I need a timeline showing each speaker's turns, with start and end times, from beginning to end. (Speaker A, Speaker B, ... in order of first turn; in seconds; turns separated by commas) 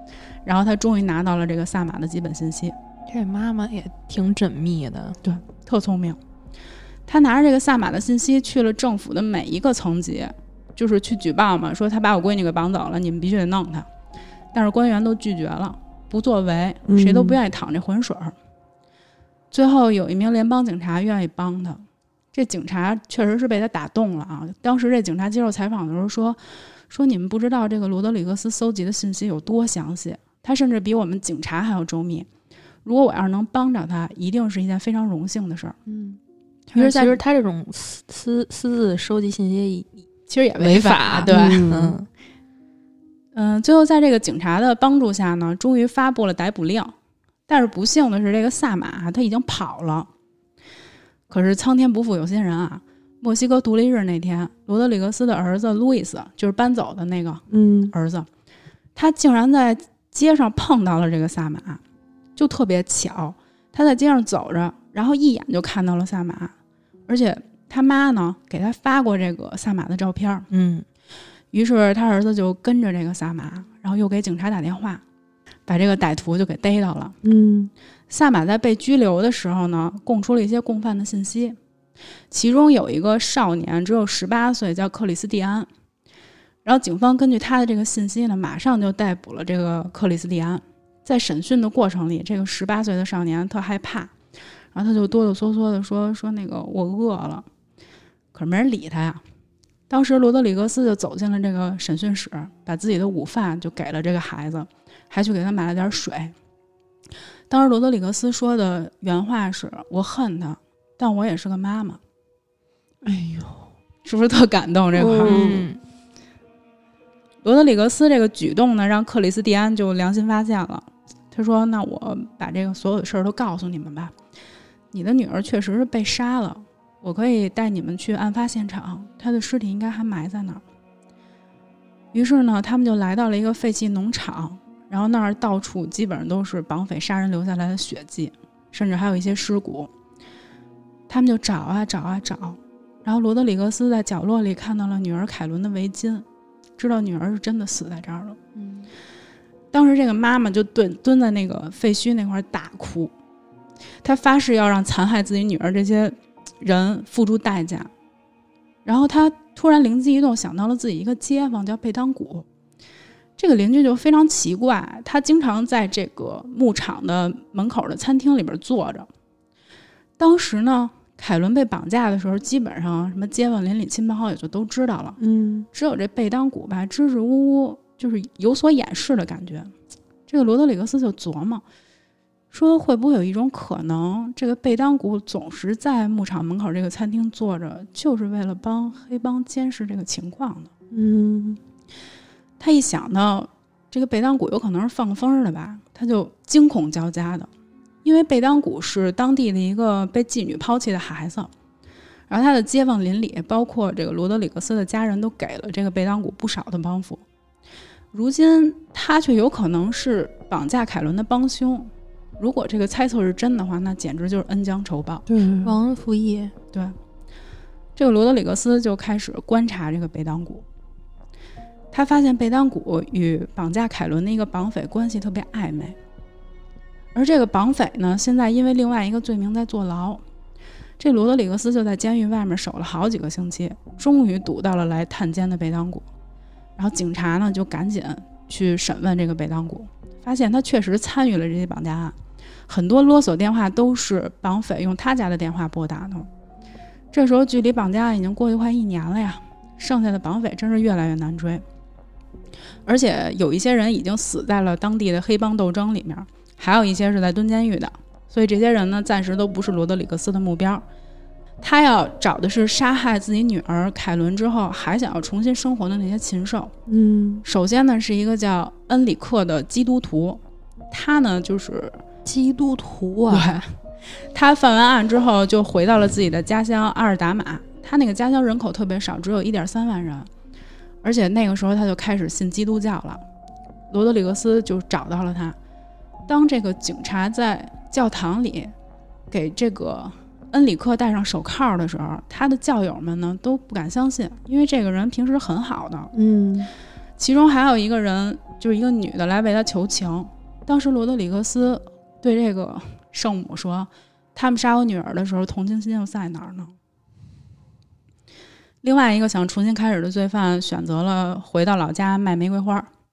Speaker A: 0.4-2.8, Speaker B: 3.1-5.2, Speaker A: 5.2-6.2, Speaker A: 7.0-13.9, Speaker A: 14.5-18.4, Speaker C: 16.9-17.4, Speaker A: 19.5-32.3, Speaker A: 32.8-35.8, Speaker B: 35.9-36.2, Speaker A: 36.7-37.2, Speaker B: 36.7-40.0, Speaker A: 40.3-41.6, Speaker B: 40.6-42.1, Speaker C: 41.3-42.0, Speaker A: 43.3-46.9, Speaker A: 47.5-50.1, Speaker A: 51.3-58.3, Speaker C: 57.5-57.9, Speaker A: 58.9-61.8, Speaker A: 62.4-66.5, Speaker A: 67.1-70.5, Speaker B: 70.5-70.8, Speaker A: 71.5-75.0, Speaker A: 75.7-77.2, Speaker C: 77.2-77.7, Speaker A: 78.1-81.6, Speaker A: 82.3-85.7, Speaker A: 86.6-94.1, Speaker A: 94.7-97.5, Speaker A: 98.3-99.2, Speaker A: 99.9-106.3, Speaker A: 107.5-112.0, Speaker C: 113.0-113.7, Speaker A: 114.0-115.4, Speaker C: 115.0-115.7, Speaker B: 115.1-115.8, Speaker A: 117.4-124.1, Speaker A: 124.9-130.6, Speaker A: 132.1-139.9, Speaker A: 141.1-146.2, Speaker A: 146.8-148.4, Speaker B: 148.5-148.9, Speaker A: 149.7-153.1, Speaker A: 154.0-157.9, Speaker A: 158.8-162.4, Speaker A: 163.4-169.1, Speaker A: 170.2-175.2, Speaker C: 175.2-175.7, Speaker A: 175.7-179.7, Speaker A: 180.3-181.6, Speaker A: 182.5-190.7, Speaker C: 190.9-191.6, Speaker A: 192.6-197.5, Speaker A: 198.0-201.5, Speaker A: 202.3-207.2, Speaker A: 208.1-215.2, Speaker C: 215.3-215.8, Speaker B: 215.6-216.5, Speaker A: 217.9-220.6, Speaker A: 221.9-226.0, Speaker A: 227.1-230.2, Speaker A: 231.0-236.0, Speaker A: 236.8-242.2, Speaker A: 242.7-246.3, Speaker A: 247.1-251.6, Speaker A: 252.8-260.8, Speaker A: 261.6-266.7, Speaker C: 266.9-267.4, Speaker A: 267.4-272.0, Speaker B: 272.2-273.5, Speaker A: 273.3-280.3, Speaker A: 281.0-283.2, Speaker A: 283.9-285.6, Speaker A: 286.3-288.7, Speaker A: 289.3-296.1, Speaker C: 296.1-296.7, Speaker A: 297.2-306.7, Speaker A: 308.8-312.9